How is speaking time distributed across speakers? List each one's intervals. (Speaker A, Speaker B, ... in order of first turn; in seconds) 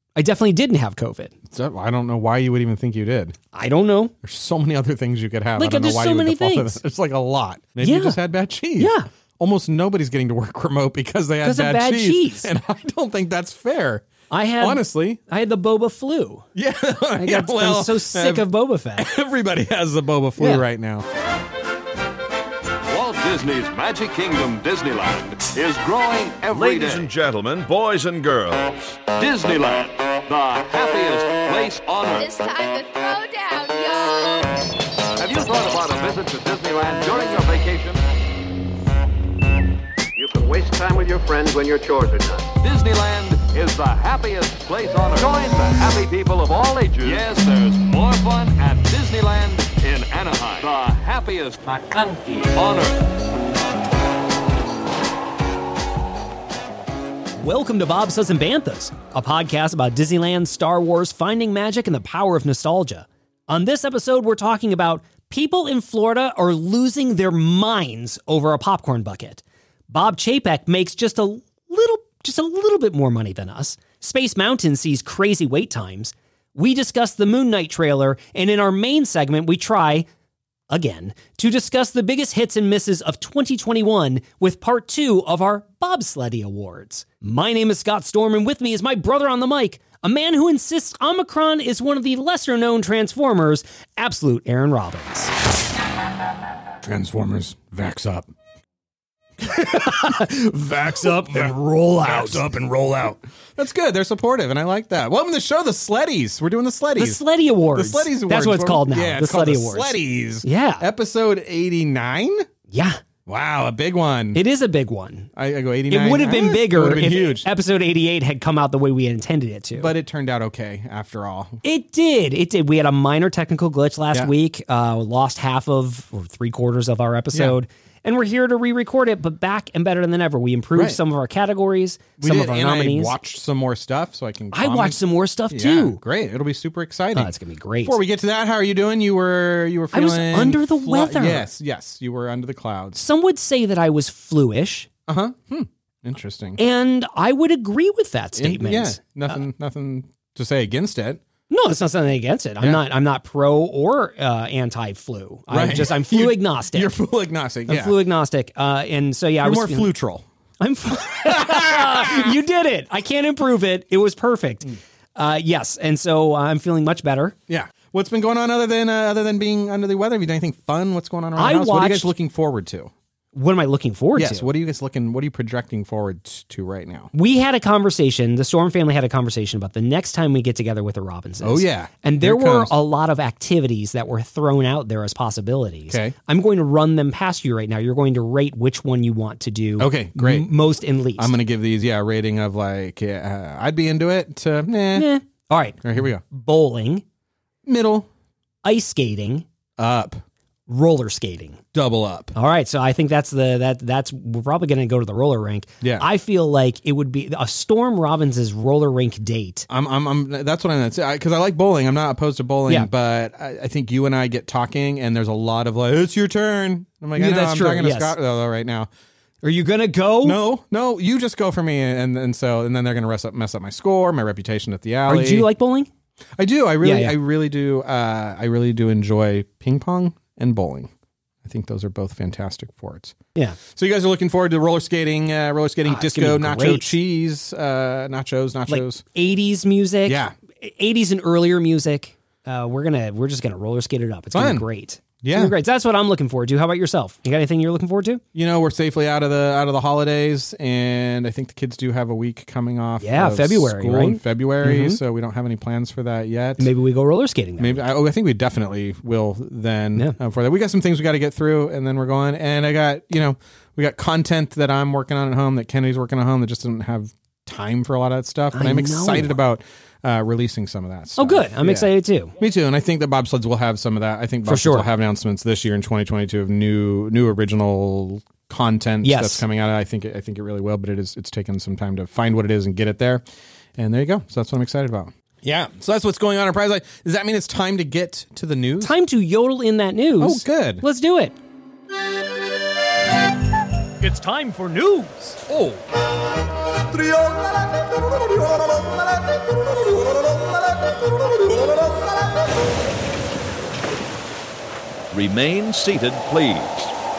Speaker A: 0.2-1.3, 3.5-4.1, 5.6-6.8, 7.8-8.2, 8.8-9.1, 11.4-12.5, 14.3-16.5, 17.2-19.1, 20.4-20.6, 57.4-80.1, 80.7-95.3, 99.8-102.5, 107.0-110.8, 112.7-113.0, 114.3-115.3, 115.9-119.9, 121.6-133.1, 134.5-136.0, 137.2-138.0, 139.9-141.5, 142.9-144.9, 146.6-149.4, 151.5-156.9, 157.7-159.9, 160.6-167.4, 171.4-172.1, 173.3-174.5, 177.1-191.3, 194.9-197.0, 198.6-199.4, 200.7-201.6, 202.3-209.7, 217.2-218.2, 219.4-220.4, 225.1-225.9, 226.8-227.2, 235.8-236.9, 238.7-248.2, 253.0-255.0, 256.6-257.8, 268.5-269.3, 271.2-272.3, 274.5-274.9, 279.0-279.4, 288.8-291.4, 294.0-295.3
Speaker B: 1.5-3.4, 4.2-14.1, 14.6-15.2, 16.6-21.1, 96.8-98.3, 99.4-107.2, 107.7-112.5, 113.3-114.4, 115.4-117.5, 119.8-121.6, 132.2-143.0, 145.1-146.6, 148.3-151.2, 155.5-158.0, 159.4-160.2, 161.2-162.3, 167.5-172.9, 174.2-177.1, 181.4-182.7, 185.9-186.2, 189.8-190.5, 191.2-195.1, 195.8-196.2, 197.7-198.1, 199.8-200.2, 201.7-202.3, 209.7-218.9, 220.2-225.5, 226.4-230.9, 231.4-233.2, 233.7-239.0, 240.1-240.3, 244.3-244.7, 245.2-245.6, 248.3-256.7, 257.6-283.2, 283.8-288.9, 290.2-290.9, 295.4-295.8
Speaker C: 22.9-27.1, 29.1-32.3, 35.2-38.0, 42.6-53.0
Speaker D: 26.5-29.0, 305.1-306.9
Speaker E: 32.2-34.5
Speaker F: 40.2-42.5